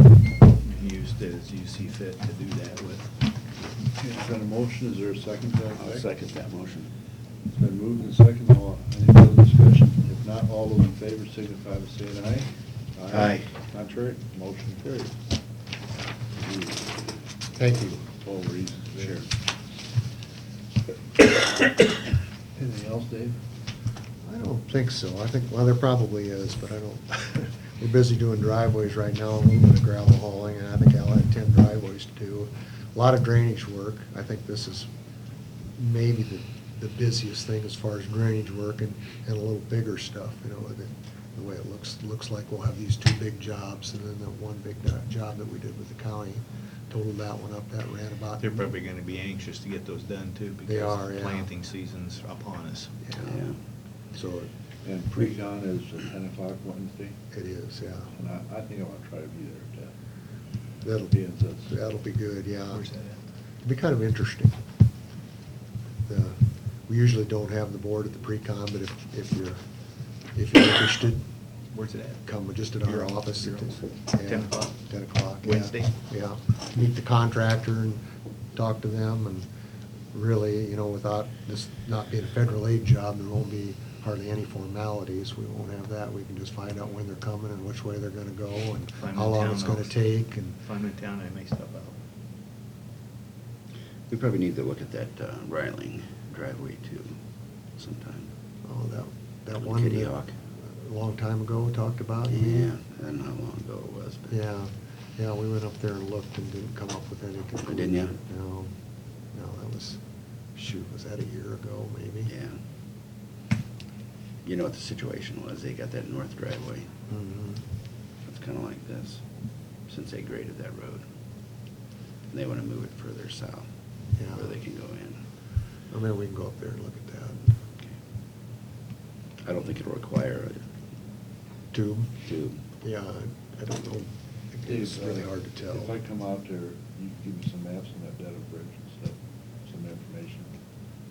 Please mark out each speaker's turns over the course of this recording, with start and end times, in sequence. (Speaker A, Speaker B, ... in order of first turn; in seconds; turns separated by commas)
Speaker A: 0.6-3.1, Speaker B: 4.0-6.1, Speaker C: 5.8-6.9, Speaker B: 7.5-15.1, Speaker C: 13.1-13.5, Speaker B: 16.4-16.8, Speaker D: 17.6-18.1, Speaker B: 18.1-19.3, Speaker B: 22.6-23.4, Speaker D: 24.2-34.9, Speaker D: 35.8-48.7, Speaker A: 48.4-52.9, Speaker D: 50.7-51.5, Speaker D: 53.0-53.4, Speaker C: 53.2-53.5, Speaker D: 54.1-54.5, Speaker B: 54.8-57.2, Speaker D: 57.3-58.1, Speaker B: 58.1-59.9, Speaker D: 60.8-61.1, Speaker B: 61.1-61.7, Speaker D: 61.7-62.8, Speaker A: 62.7-63.2, Speaker D: 63.6-64.5, Speaker D: 66.1-69.6, Speaker D: 70.3-71.2, Speaker A: 71.7-72.2, Speaker D: 72.2-78.0, Speaker A: 72.8-74.7, Speaker A: 75.4-75.9, Speaker D: 78.5-79.5, Speaker D: 80.1-90.5, Speaker A: 89.0-92.0, Speaker C: 94.1-97.1, Speaker C: 97.8-98.2, Speaker D: 98.6-102.7, Speaker C: 99.6-100.3, Speaker C: 102.4-104.3, Speaker D: 104.3-108.7, Speaker C: 107.7-108.1, Speaker D: 109.3-110.0, Speaker D: 110.5-112.3, Speaker C: 114.4-116.9, Speaker D: 117.1-117.6, Speaker C: 118.2-119.2, Speaker C: 119.9-121.0, Speaker C: 122.3-123.7, Speaker D: 124.2-124.5, Speaker C: 124.3-125.2, Speaker D: 125.9-127.5, Speaker C: 129.4-130.6, Speaker D: 131.7-132.1, Speaker C: 132.2-132.6, Speaker D: 132.8-135.9, Speaker B: 134.7-139.2, Speaker B: 139.7-140.5